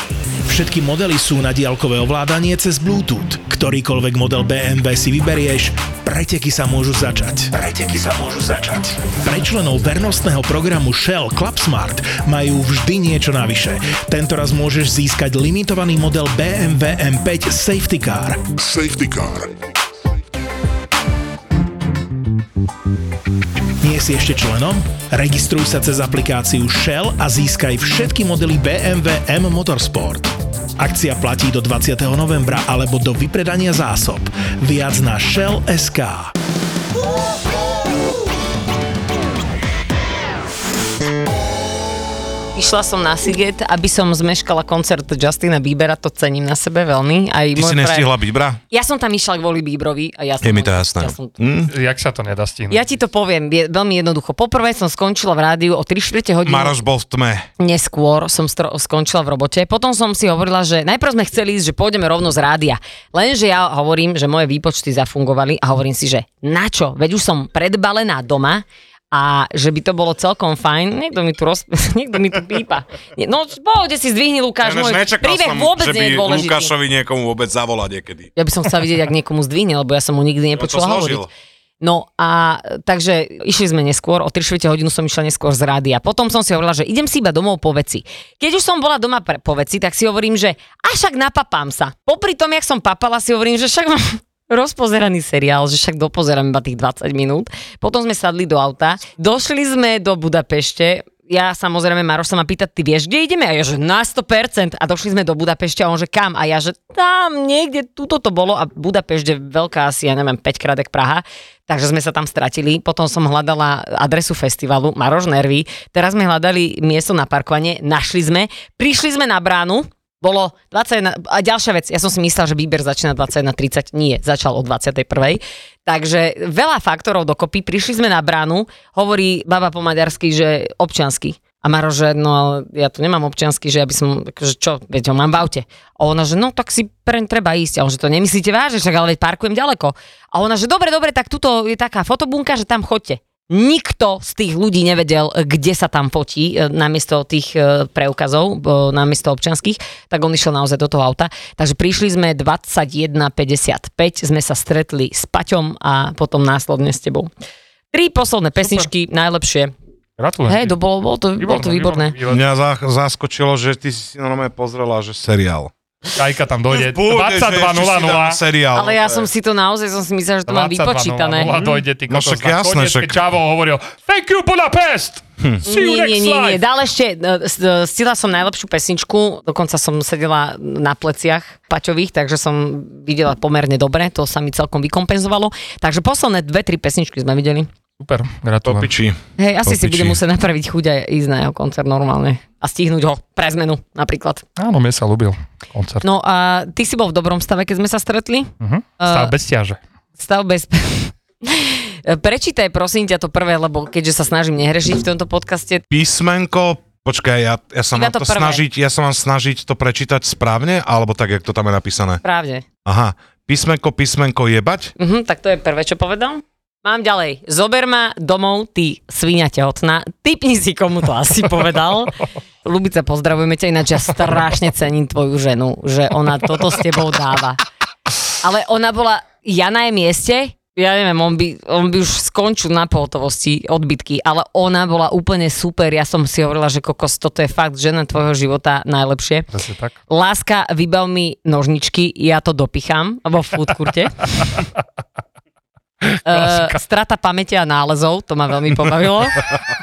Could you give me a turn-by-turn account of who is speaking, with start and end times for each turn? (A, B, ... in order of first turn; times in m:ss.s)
0:00.4-0:18.6 A
0:23.8-0:36.3 A
0:42.6-0:48.1 B
0:47.6-0:48.6 C
0:48.7-0:51.4 B
0:50.4-0:51.7 C
0:51.7-0:52.8 D
0:52.7-0:56.8 B
0:56.4-0:57.5 C
0:57.6-1:16.7 B
1:14.6-1:18.3 C
1:18.4-1:21.2 B
1:20.6-1:21.3 C
1:21.8-2:37.3 B
2:37.9-2:39.7 B
2:38.6-2:38.9 D
2:40.2-2:40.8 D
2:40.5-2:42.2 B
2:41.4-2:42.4 D
2:42.3-2:45.7 C
2:46.1-2:48.4 D
2:46.7-2:49.2 C
2:48.7-2:51.8 B
2:50.5-2:56.6 D
2:52.1-2:53.2 C
2:55.7-3:07.7 B
3:08.0-3:08.9 D
3:08.6-3:10.2 C
3:09.4-3:14.4 B
3:14.6-3:16.1 D
3:16.0-3:19.3 B
3:18.6-3:19.8 D
3:20.2-3:25.8 B
3:25.9-3:32.2 C
3:27.9-3:28.6 B
3:32.2-3:32.6 B
3:32.8-3:34.9 C
3:35.0-3:47.6 B
3:48.4-3:59.5 B
3:59.5-4:00.0 D
4:00.1-4:04.5 B
4:06.0-4:06.8 D
4:06.3-4:09.5 B